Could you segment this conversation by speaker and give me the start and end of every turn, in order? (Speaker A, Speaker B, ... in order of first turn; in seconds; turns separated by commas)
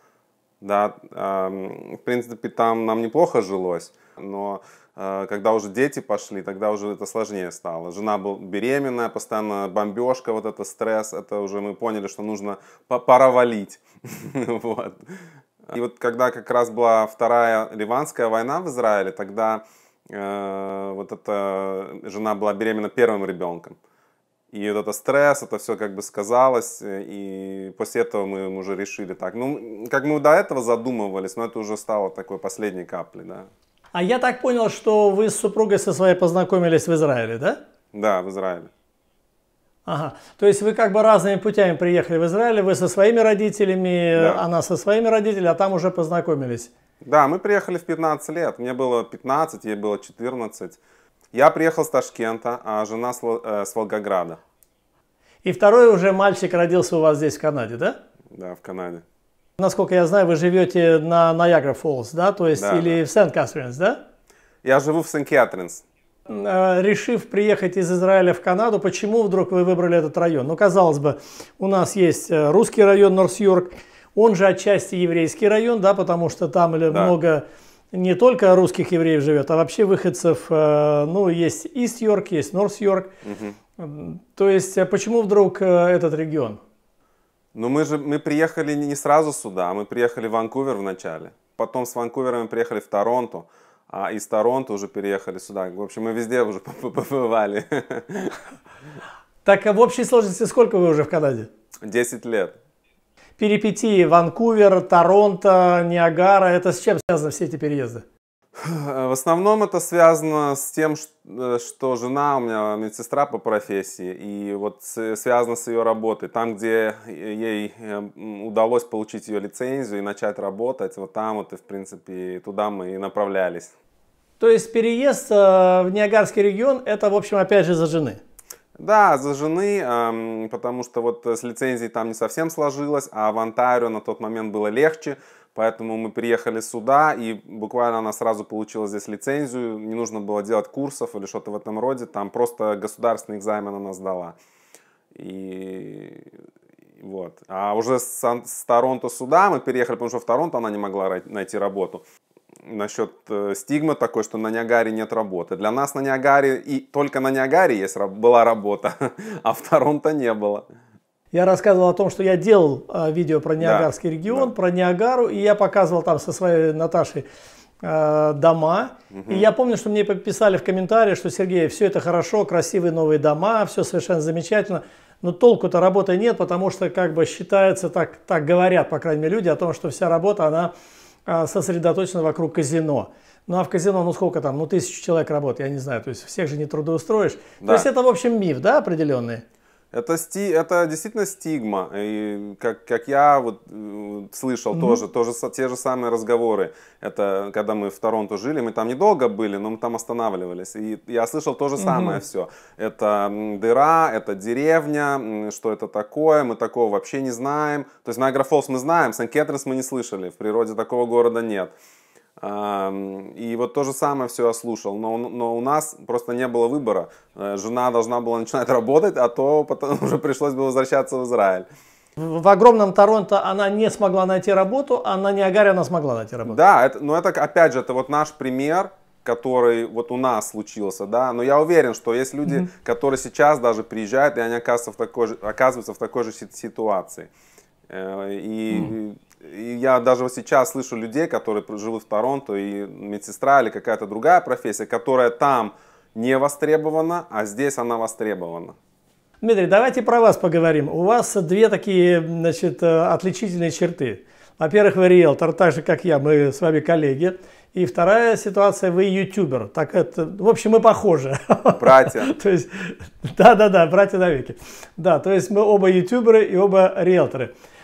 Speaker A: 0.6-15.0, Speaker A: 15.7-23.8, Speaker A: 24.5-33.5, Speaker B: 33.9-37.6, Speaker A: 37.9-38.7, Speaker B: 39.9-46.7, Speaker A: 44.1-44.4, Speaker A: 47.0-50.8, Speaker A: 51.3-54.4, Speaker B: 55.4-58.0, Speaker A: 58.3-59.0, Speaker B: 59.6-64.0, Speaker A: 62.5-63.0, Speaker A: 64.6-65.8, Speaker B: 66.3-83.1, Speaker A: 83.2-83.6, Speaker B: 83.8-86.6, Speaker A: 87.5-98.4, Speaker B: 99.4-101.5, Speaker A: 101.8-102.5, Speaker B: 103.4-108.0, Speaker A: 108.6-123.7, Speaker B: 124.4-128.2, Speaker A: 128.8-144.3, Speaker A: 145.1-146.3, Speaker A: 147.0-152.0, Speaker A: 152.6-160.6, Speaker B: 161.3-167.2, Speaker A: 163.6-164.5, Speaker B: 167.8-180.7, Speaker A: 169.1-169.5, Speaker B: 181.3-189.4, Speaker A: 187.6-187.9, Speaker A: 189.9-211.7, Speaker B: 194.7-195.0, Speaker B: 201.8-202.2, Speaker A: 212.4-221.6, Speaker B: 222.2-226.6, Speaker A: 226.4-237.3, Speaker A: 237.9-248.8, Speaker B: 249.4-267.5, Speaker A: 261.8-262.3